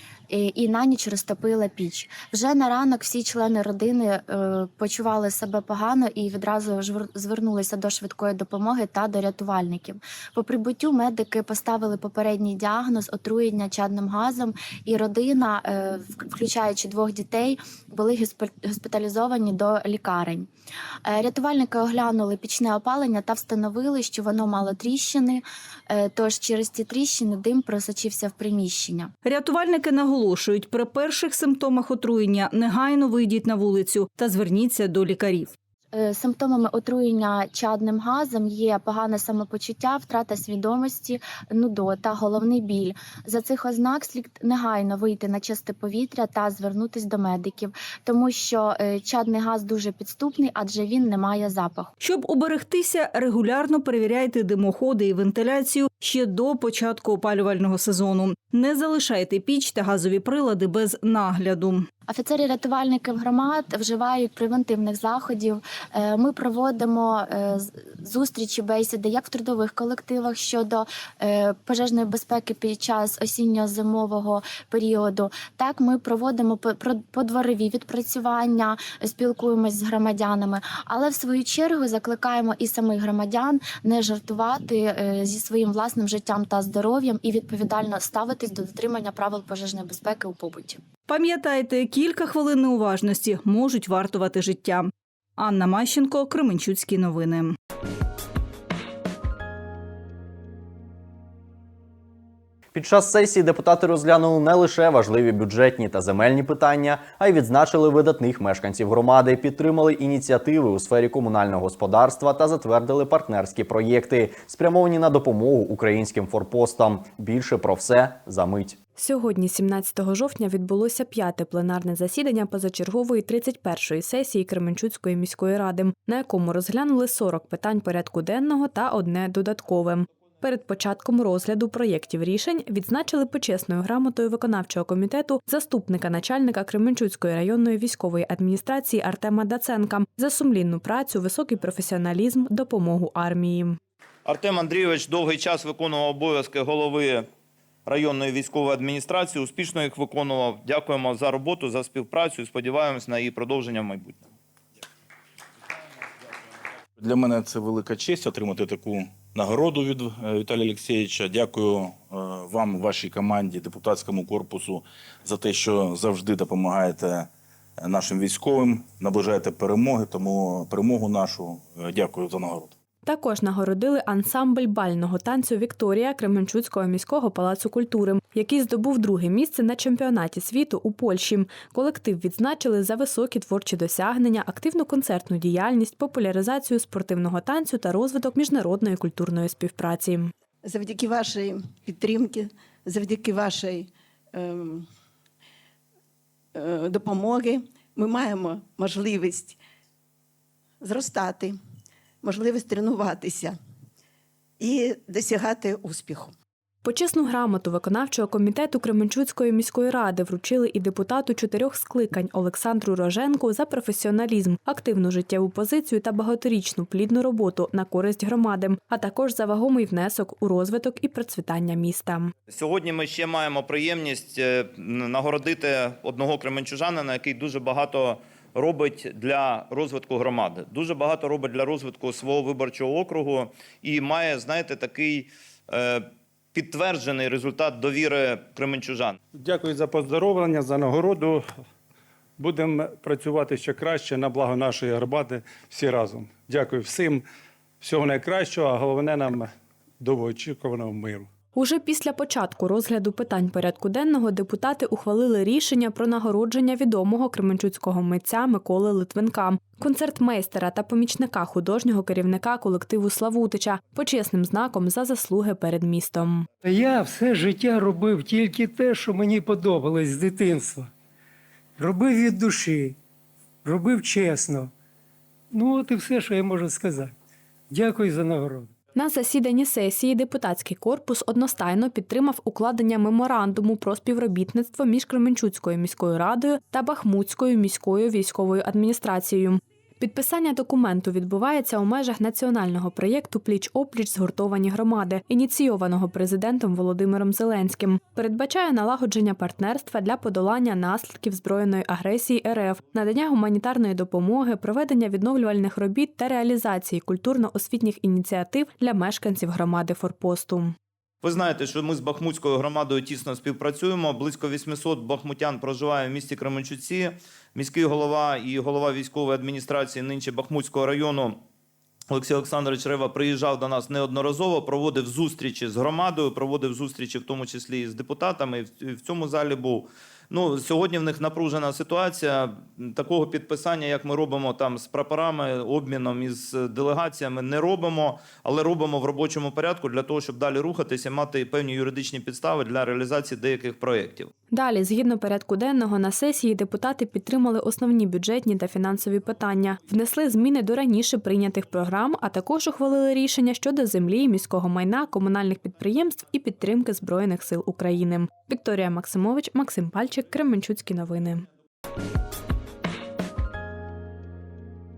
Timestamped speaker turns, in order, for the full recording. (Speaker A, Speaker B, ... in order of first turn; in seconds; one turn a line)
Speaker A: 0.3-20.5
Speaker A: 21.1-29.1
Speaker B: 29.2-35.5
Speaker A: 35.9-51.9
Speaker B: 52.0-61.9
Speaker A: 62.1-90.8
Speaker B: 91.1-97.6
Speaker C: 102.7-118.8
Speaker D: 119.0-143.8
Speaker E: 144.3-147.3
Speaker E: 147.9-154.2
Speaker F: 157.0-167.3
Speaker F: 167.8-172.7
Speaker D: 173.1-190.3
Speaker G: 190.6-194.9
Speaker G: 196.6-199.6
Speaker G: 200.8-201.6
Speaker G: 202.2-203.6
Speaker G: 204.6-206.3
Speaker D: 206.8-222.3
Speaker E: 222.5-239.2
Speaker H: 239.3-241.4
Speaker H: 242.4-247.2
Speaker H: 247.8-251.3
Speaker D: 251.6-266.5
Speaker I: 266.6-270.9
Speaker I: 271.8-273.0
Speaker I: 273.6-274.7
Speaker I: 275.5-277.1
Speaker I: 277.7-278.7
Speaker D: 278.9-310.8
Speaker E: 311.2-321.4
Speaker E: 322.1-344.3
Speaker D: 344.5-361.5